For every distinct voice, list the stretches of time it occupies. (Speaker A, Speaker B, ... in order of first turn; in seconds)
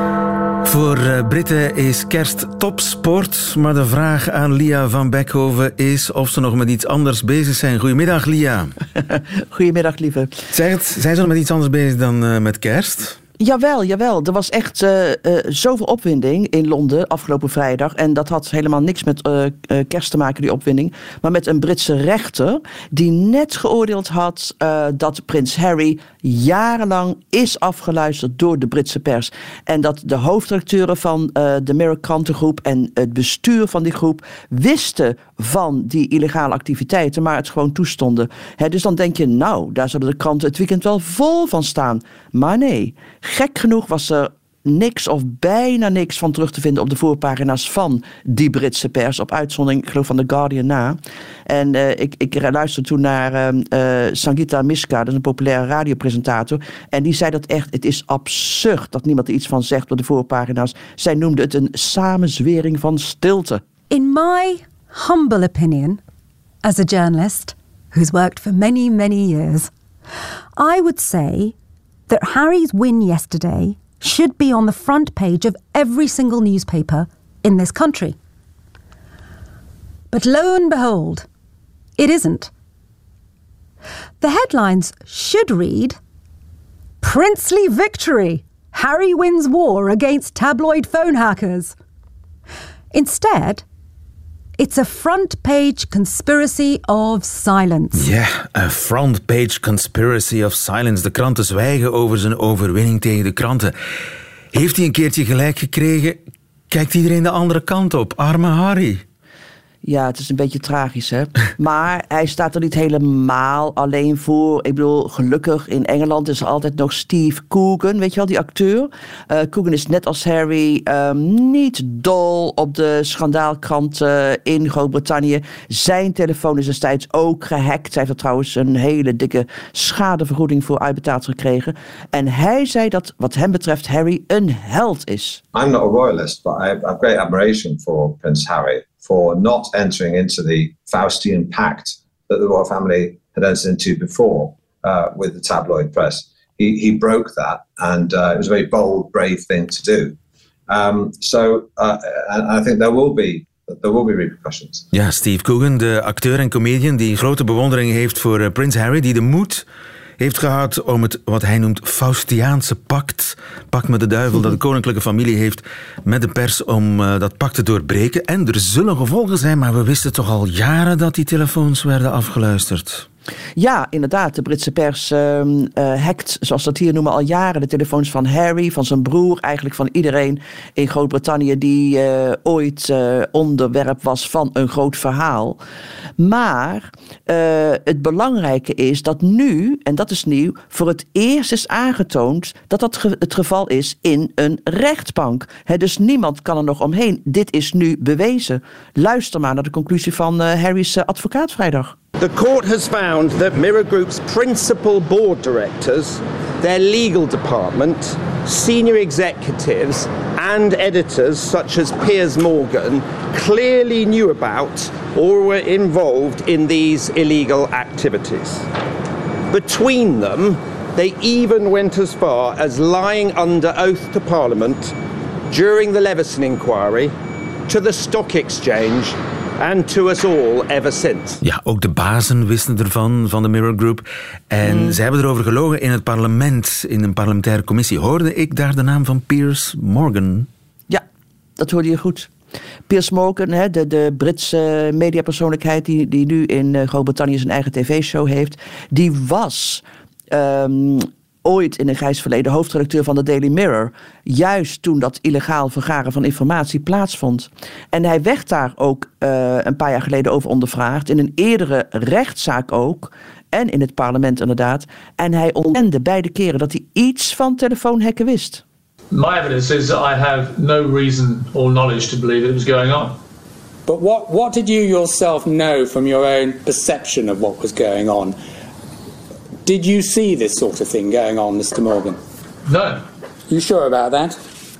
Speaker A: 0.6-8.7, 10.5-13.2, 97.9-103.7, 104.5-109.0, 154.9-159.6, 160.2-173.1, 231.4-240.5
Speaker B: 9.5-10.4, 13.4-63.6, 109.8-135.4, 173.6-185.6, 186.2-201.9, 234.6-235.0, 241.6-242.3, 242.9-268.6
Speaker C: 63.9-66.0, 66.6-69.7, 70.6-71.5, 72.1-78.2, 80.1-81.2, 82.0-82.5, 84.2-86.0, 87.0-91.7, 92.9-93.6, 94.6-98.1
Speaker D: 135.5-150.2, 150.7-154.9
Speaker E: 202.2-218.7, 219.5-224.9, 225.5-227.1, 227.7-231.4
Speaker F: 269.1-273.2, 282.7-283.0
Speaker G: 273.9-278.4, 279.6-282.2, 283.5-284.4